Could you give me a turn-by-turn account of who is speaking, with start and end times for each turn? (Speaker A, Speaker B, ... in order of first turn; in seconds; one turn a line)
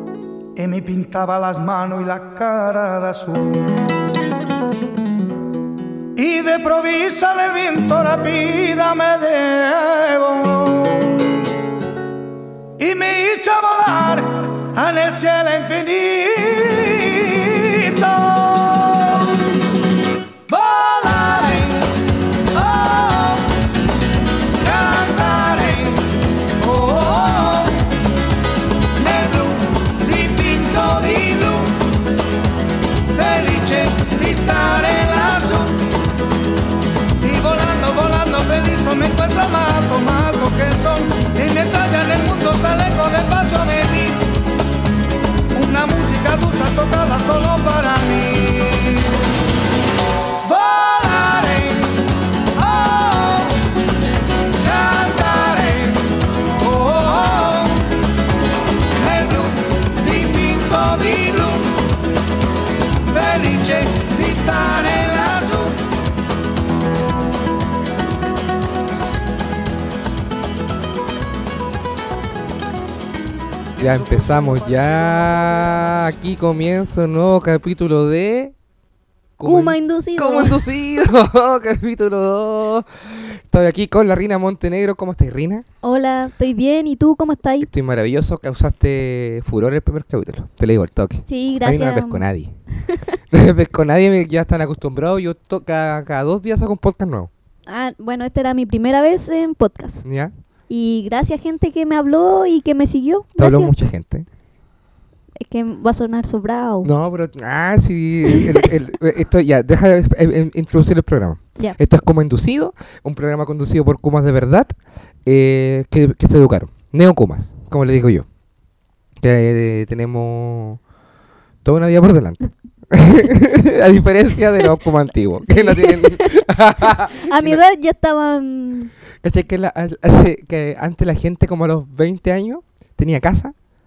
Speaker A: 0.6-3.8
Speaker A: 6.2-11.4
Speaker A: 12.8-19.5
Speaker A: 20.5-22.0
Speaker A: 22.5-23.6
Speaker A: 24.6-28.0
Speaker A: 29.0-32.0
Speaker A: 33.1-36.0
Speaker A: 37.2-44.4
Speaker A: 45.5-49.2
Speaker A: 50.4-53.7
Speaker A: 54.5-58.0
Speaker A: 58.9-61.9
Speaker A: 63.1-65.9
Speaker A: 73.8-76.1
Speaker B: 73.8-78.5
Speaker B: 79.4-85.7
Speaker C: 79.4-80.7
Speaker C: 85.8-87.7
Speaker B: 87.6-92.5
Speaker C: 91.3-92.3
Speaker B: 93.3-97.3
Speaker C: 97.7-100.0
Speaker B: 100.0-100.3
Speaker C: 100.7-103.7
Speaker B: 103.4-104.3
Speaker C: 105.4-106.9
Speaker B: 106.8-114.7
Speaker C: 108.3-108.6
Speaker B: 115.3-118.3
Speaker B: 119.2-120.8
Speaker B: 121.7-127.6
Speaker C: 125.4-128.9
Speaker B: 129.2-133.5